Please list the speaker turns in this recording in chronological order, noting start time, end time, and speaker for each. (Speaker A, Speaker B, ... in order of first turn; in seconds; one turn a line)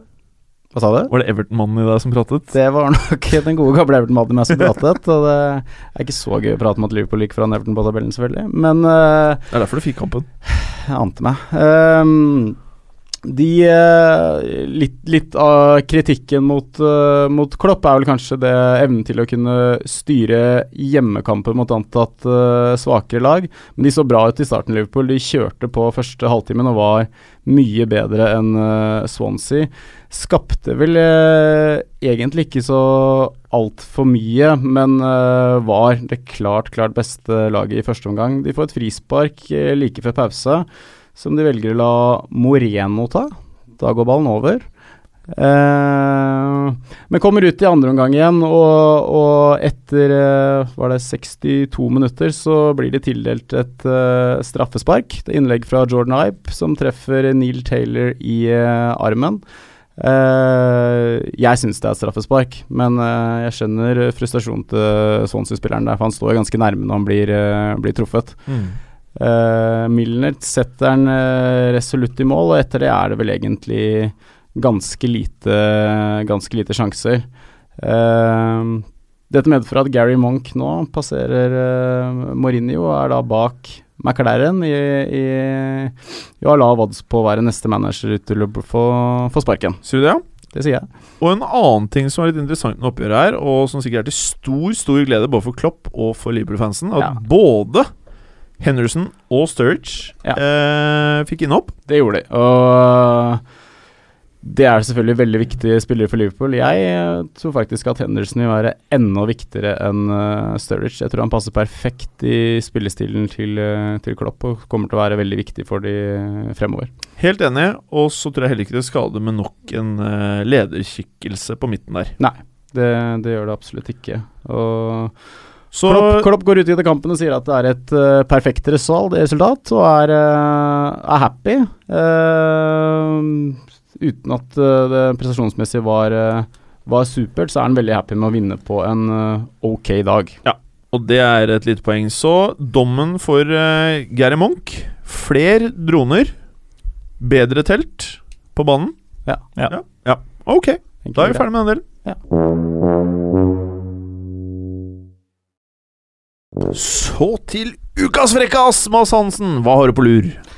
Speaker A: 0.7-1.1
Speaker B: 1.1-2.5
Speaker A: 2.5-9.5
Speaker B: 9.5-10.3
Speaker A: 10.5-12.6
Speaker A: 13.2-44.6
Speaker A: 45.3-59.4
Speaker A: 60.0-68.4
Speaker B: 68.5-68.8
Speaker A: 69.2-77.3
Speaker A: 77.8-89.8
Speaker B: 89.8-90.2
Speaker A: 90.5-90.9
Speaker B: 91.2-97.9
Speaker B: 98.6-101.7
Speaker A: 101.9-103.4
Speaker A: 104.4-116.9
Speaker B: 117.2-122.1
Speaker A: 122.2-125.1
Speaker B: 125.7-126.3
Speaker A: 125.8-140.4
Speaker B: 140.4-146.3
Speaker B: 147.2-148.9
Speaker B: 149.7-151.8
Speaker A: 151.1-151.5
Speaker B: 156.7-160.4